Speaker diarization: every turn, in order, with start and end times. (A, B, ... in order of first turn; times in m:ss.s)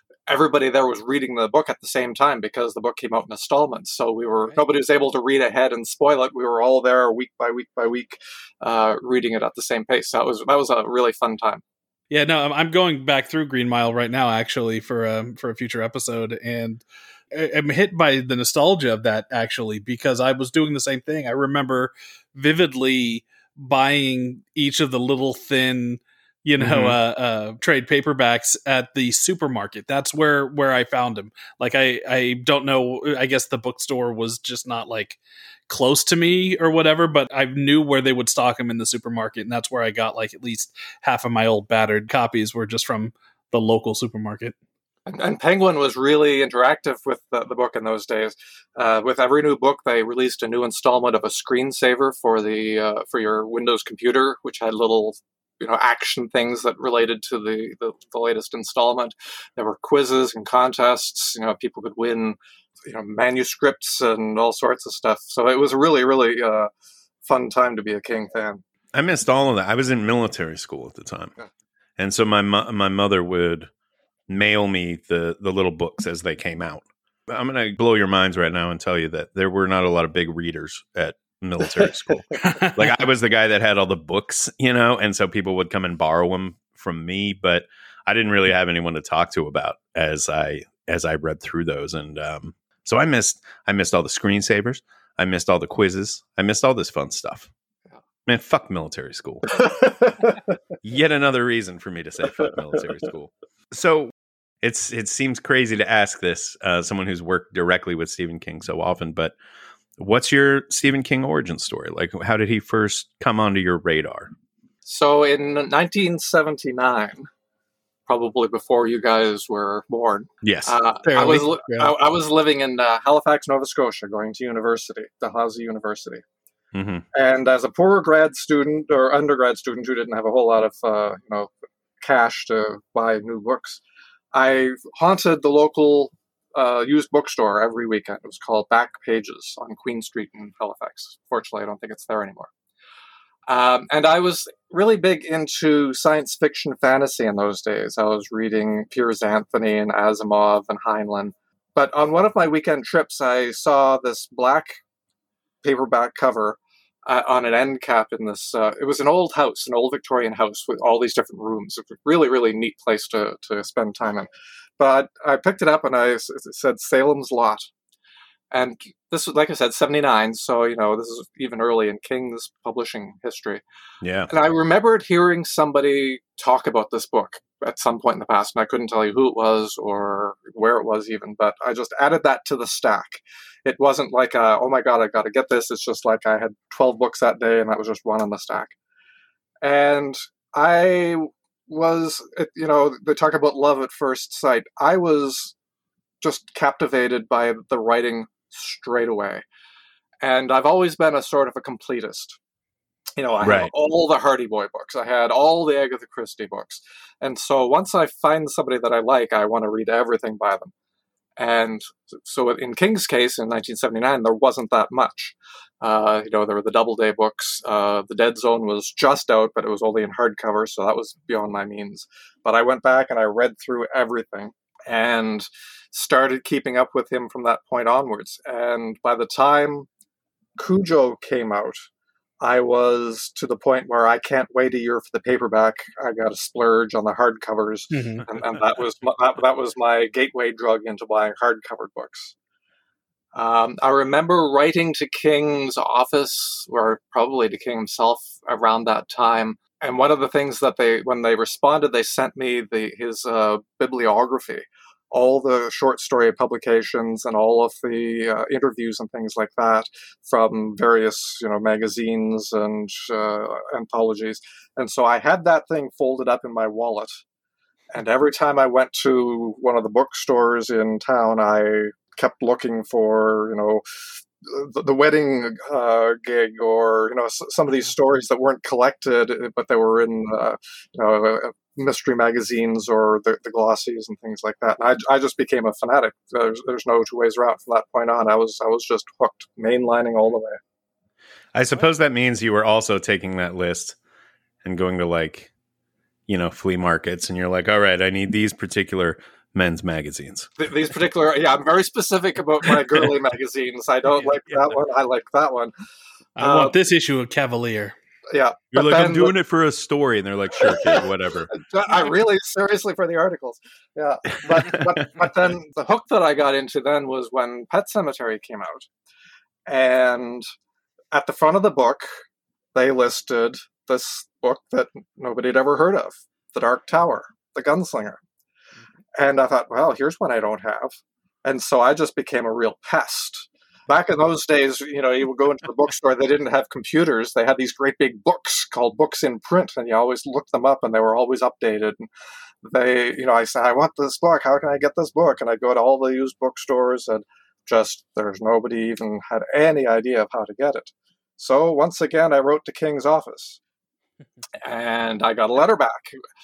0:00.3-0:11.6 A
0:12.1-0:44.5 B
0:26.6-0:27.0 C
0:45.0-1:06.7 A
1:07.2-1:08.6 A
1:08.9-1:11.3 C
1:12.0-1:13.7 C
1:14.3-1:37.5 C
1:22.4-1:23.0 B
1:38.2-1:39.6 C
1:39.7-1:40.3 A
1:40.8-1:49.3 C
1:50.0-1:54.3 C
1:54.8-1:57.3 A
1:58.1-2:06.2 A
2:00.4-2:00.8 C
2:01.0-2:01.9 B
2:06.7-2:07.0 C
2:07.1-2:13.8 A
2:14.3-2:22.5 A
2:23.5-2:34.8 A
2:35.6-2:47.7 A
2:48.5-2:53.6 A
2:54.0-2:54.3 C
2:54.3-3:08.7 A
3:09.6-3:15.5 A
3:16.2-3:19.4 A
3:20.2-3:22.4 A
3:23.2-3:30.7 A
3:23.4-3:23.7 C
3:31.4-3:49.9 A
3:50.6-3:51.9 A
3:52.4-4:02.3 A
3:57.9-3:58.2 B
4:03.3-4:27.2 A
4:27.9-4:33.8 A
4:34.4-4:50.6 A
4:51.5-4:54.0 C
4:54.6-4:55.5 C
4:56.3-5:00.5 C
5:00.6-5:05.7 A
5:06.4-5:07.9 B
5:06.4-5:06.7 A
5:08.3-5:09.3 A
5:08.7-5:11.5 C
5:11.5-5:18.9 A
5:14.7-5:15.2 C
5:19.7-5:20.4 A
5:21.1-5:22.1 A
5:22.7-5:28.2 A
5:29.2-5:42.1 A
5:42.6-5:53.6 A
5:54.6-5:56.2 A